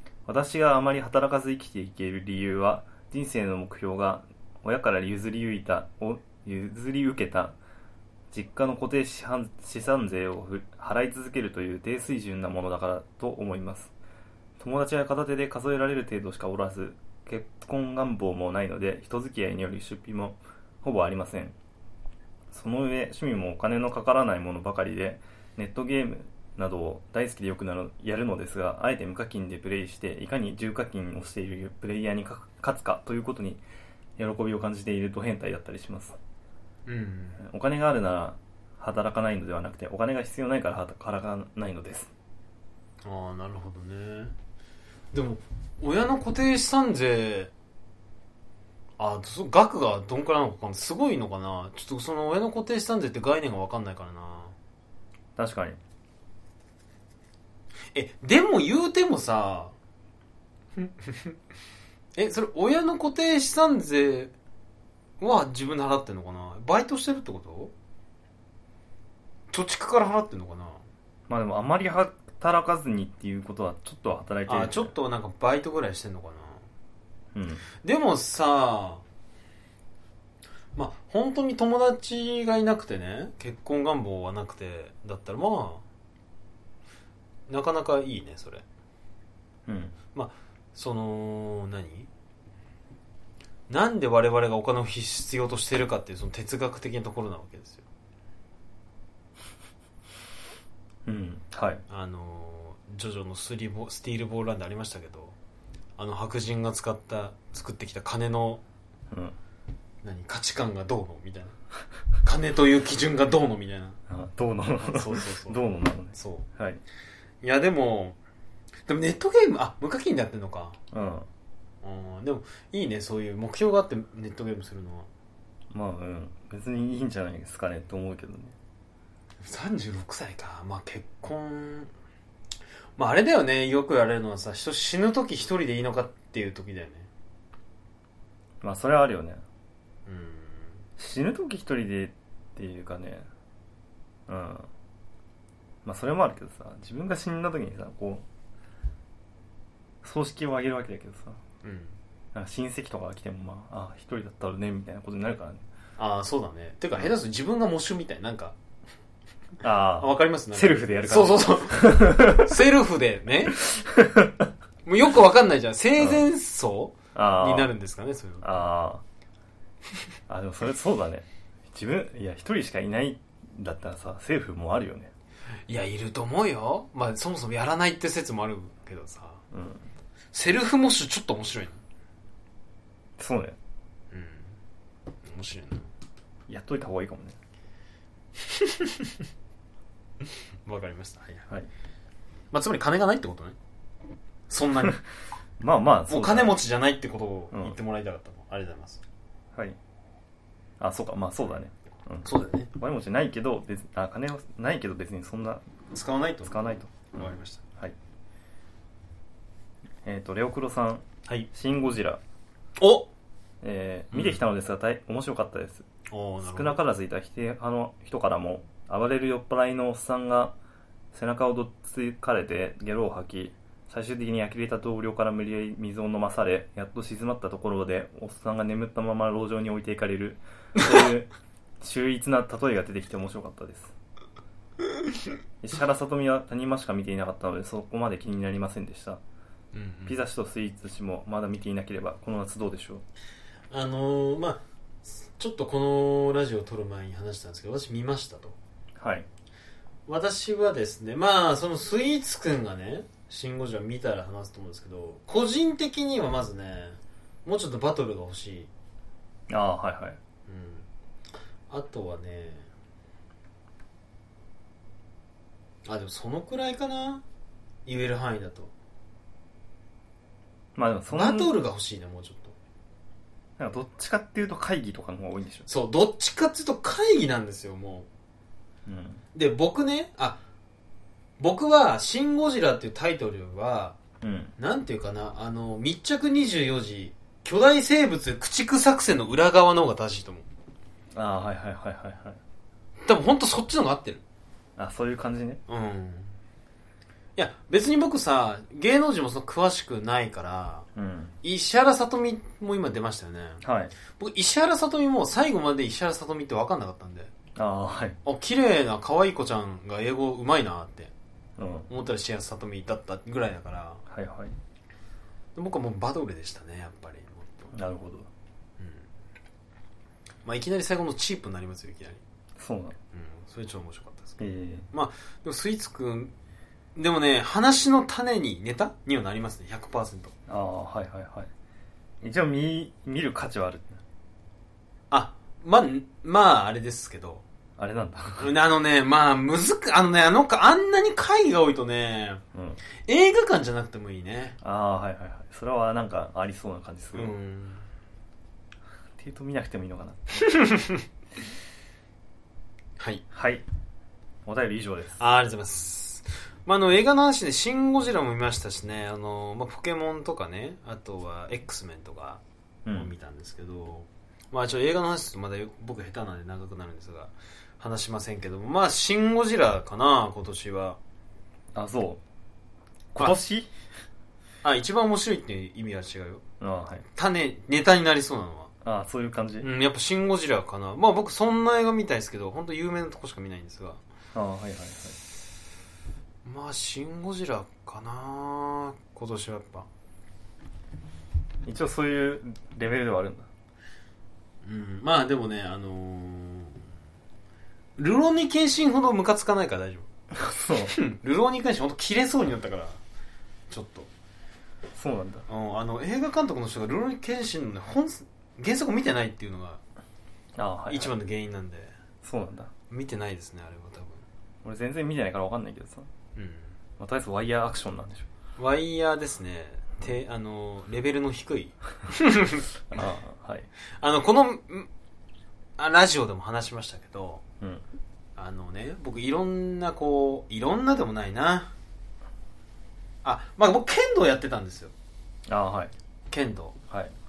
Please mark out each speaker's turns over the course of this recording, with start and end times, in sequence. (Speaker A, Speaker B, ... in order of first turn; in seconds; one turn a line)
Speaker A: 0.3-7.6
Speaker A: 8.3-13.9
Speaker A: 14.6-21.6
Speaker A: 22.5-33.6
Speaker A: 34.2-36.2
Speaker B: 36.9-37.4
Speaker A: 37.4-42.1
Speaker B: 43.0-44.4
Speaker B: 45.1-47.5
Speaker B: 49.0-54.5
Speaker A: 55.4-55.8
Speaker B: 57.9-59.7
Speaker B: 60.8-61.4
Speaker B: 62.2-64.3
Speaker B: 65.2-67.7
Speaker B: 69.5-70.8
Speaker A: 71.3-74.9
Speaker B: 74.5-76.7
Speaker A: 77.3-77.7
Speaker B: 77.8-79.0
Speaker B: 80.8-85.8
Speaker B: 87.5-88.6
Speaker A: 89.7-89.9
Speaker B: 90.1-92.1
Speaker B: 93.7-97.8
Speaker A: 101.1-101.8
Speaker B: 101.9-105.4
Speaker B: 106.0-108.6
Speaker A: 109.1-109.4
Speaker B: 110.0-111.6
Speaker B: 112.2-114.0
Speaker A: 114.1-116.8
Speaker B: 114.8-115.6
Speaker B: 116.1-116.5
Speaker B: 117.4-118.2
Speaker B: 118.9-120.8
Speaker A: 120.9-121.3
Speaker B: 121.8-125.1
Speaker A: 125.7-128.6
Speaker B: 129.4-131.9
Speaker B: 133.0-137.1
Speaker A: 138.6-139.4
Speaker B: 140.1-140.8
Speaker A: 141.0-143.3
Speaker A: 144.3-144.7
Speaker A: 145.8-148.2
Speaker A: 150.0-151.4
Speaker B: 151.6-152.0
Speaker A: 152.3-155.7
Speaker B: 156.0-158.6
Speaker A: 159.6-162.6
Speaker B: 160.0-163.6
Speaker A: 163.6-164.5
Speaker B: 164.8-168.6
Speaker A: 167.1-167.7
Speaker A: 168.4-169.0
Speaker A: 170.3-175.1
Speaker B: 175.7-179.4
Speaker A: 179.5-179.9
Speaker B: 180.3-181.8
Speaker A: 183.2-183.6
Speaker B: 184.1-184.6
Speaker B: 185.2-185.9
Speaker A: 186.5-187.4
Speaker B: 188.4-189.2
Speaker B: 190.7-191.5
Speaker B: 192.5-193.6
Speaker B: 194.5-195.0
Speaker A: 195.6-196.6
Speaker B: 196.1-199.0
Speaker A: 200.8-205.6
Speaker B: 202.2-202.7
Speaker B: 205.9-206.5
Speaker A: 206.4-207.9
Speaker B: 207.2-207.6
Speaker A: 210.0-212.2
Speaker B: 212.8-213.1
Speaker A: 213.6-215.9
Speaker B: 214.1-214.4
Speaker B: 216.1-216.8
Speaker A: 216.4-220.5
Speaker A: 221.1-231.3
Speaker A: 231.8-233.9
Speaker A: 235.6-239.2
Speaker B: 239.7-240.2
Speaker A: 240.1-243.0
Speaker B: 243.7-248.6
Speaker A: 249.0-249.3
Speaker B: 250.1-258.7
Speaker A: 259.5-260.2
Speaker B: 260.5-260.9
Speaker B: 261.7-262.7
Speaker B: 265.9-267.2
Speaker B: 267.9-268.7
Speaker A: 270.8-271.5
Speaker B: 271.1-272.6
Speaker A: 273.6-275.7
Speaker B: 275.7-278.1
Speaker A: 278.9-279.2
Speaker B: 279.4-280.4
Speaker B: 281.4-284.0
Speaker A: 284.2-284.5
Speaker B: 284.6-290.5
Speaker A: 291.1-292.4
Speaker B: 293.1-294.2
Speaker A: 294.8-295.6
Speaker B: 295.7-296.3
Speaker B: 297.4-300.9
Speaker A: 300.9-301.4
Speaker B: 301.4-303.6
Speaker A: 303.6-303.9
Speaker B: 304.2-307.3
Speaker A: 307.6-308.2
Speaker B: 308.2-311.1
Speaker A: 311.6-311.9
Speaker B: 311.9-314.0
Speaker A: 314.1-314.6
Speaker B: 315.6-317.7
Speaker A: 317.7-318.3
Speaker B: 318.8-319.1
Speaker B: 320.4-322.2
Speaker A: 322.6-323.0
Speaker B: 323.1-326.3
Speaker A: 324.4-324.9
Speaker B: 327.0-330.3
Speaker A: 330.5-331.5
Speaker A: 332.2-334.0
Speaker B: 335.1-337.4
Speaker A: 337.8-338.5
Speaker B: 338.4-342.4
Speaker A: 342.5-342.8
Speaker B: 343.1-344.6
Speaker A: 344.6-347.3
Speaker B: 347.1-347.9
Speaker A: 349.2-350.6
Speaker B: 350.5-351.0
Speaker B: 353.0-353.2
Speaker A: 353.3-353.6
Speaker A: 354.4-355.2
Speaker B: 355.2-371.0
Speaker A: 362.9-363.1
Speaker A: 371.7-372.2
Speaker A: 373.1-373.7
Speaker B: 374.6-376.4
Speaker A: 376.6-377.1
Speaker B: 377.1-378.7
Speaker A: 378.8-379.7
Speaker B: 379.6-384.0
Speaker A: 384.3-385.2
Speaker B: 386.4-389.9
Speaker A: 391.6-393.5
Speaker B: 394.6-396.8
Speaker B: 398.0-400.1
Speaker A: 400.3-401.0
Speaker B: 400.9-403.0
Speaker B: 403.7-404.1
Speaker A: 404.9-405.5
Speaker B: 405.5-409.8
Speaker A: 410.6-411.1
Speaker B: 410.9-411.9
Speaker A: 412.2-412.7
Speaker B: 412.9-414.2
Speaker A: 414.6-416.1
Speaker B: 416.4-416.7
Speaker A: 417.0-418.3
Speaker B: 418.6-422.7
Speaker A: 422.9-423.7
Speaker B: 424.0-424.9
Speaker B: 425.8-427.4
Speaker B: 428.4-431.7
Speaker B: 433.2-434.9
Speaker A: 435.5-435.9
Speaker B: 436.3-436.8